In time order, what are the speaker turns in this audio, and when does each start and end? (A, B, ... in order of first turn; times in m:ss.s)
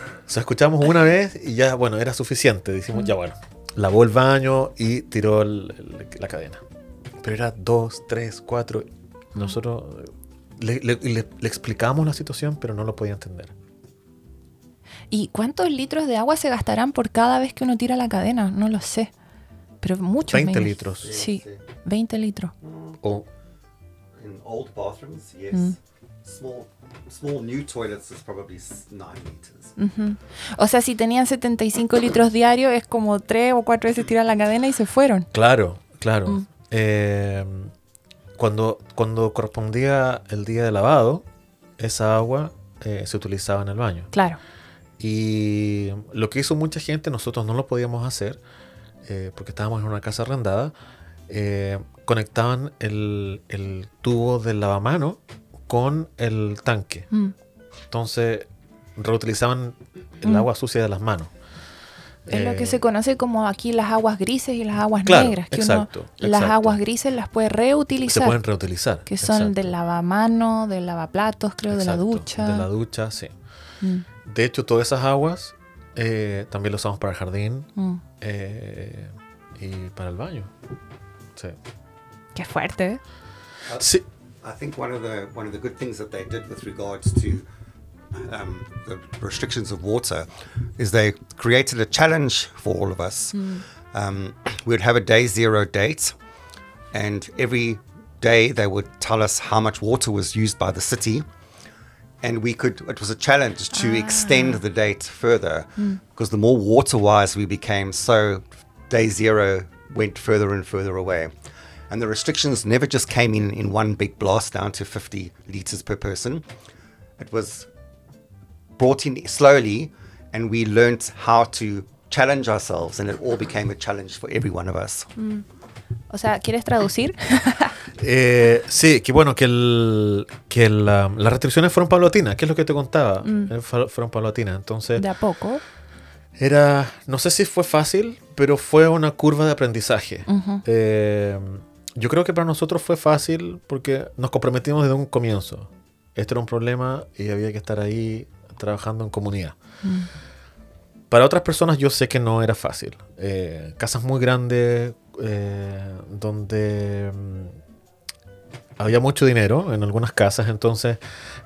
0:00.3-0:06.6 A
0:07.2-0:13.5 A
0:15.1-0:19.1 B
0:19.8-0:22.5 B
0:20.3-0:21.2 A
0:21.0-0:21.6 C
0:22.6-0:23.0 C
0:23.0-0:23.3 A
0:24.2-0:29.7 C
0:29.8-0:35.3 B
0:35.3-0:37.7 A
0:38.4-0:41.2 A
0:41.8-0:44.1 A
0:44.1-0:44.4 B
0:45.0-0:48.4 A
0:49.0-0:50.7 A
0:51.3-0:57.1 A
0:57.9-1:01.3 A
1:02.3-1:02.8 A
1:02.3-1:08.4 B
1:05.0-1:06.8 A
1:08.1-1:09.7 A
1:09.1-1:12.7 B
1:11.7-1:13.3 A
1:13.8-1:14.1 B
1:14.2-1:20.5 A
1:17.8-1:18.0 B
1:22.4-1:23.0 B
1:23.7-1:27.5 C
1:28.1-1:36.2 C
1:33.3-1:33.6 B
1:36.9-1:41.3 C
1:42.2-1:51.3 C
1:43.7-1:44.6 B
1:51.9-1:56.5 C
1:57.2-1:57.7 C
1:58.8-2:05.1 C
2:05.2-2:05.4 B
2:06.1-2:07.8 B
2:08.0-2:15.1 A
2:13.2-2:13.5 B
2:15.0-2:15.6 B
2:16.4-2:29.6 A
2:20.3-2:20.6 B
2:29.8-2:30.1 B
2:31.1-2:37.6 A
2:38.8-2:41.0 A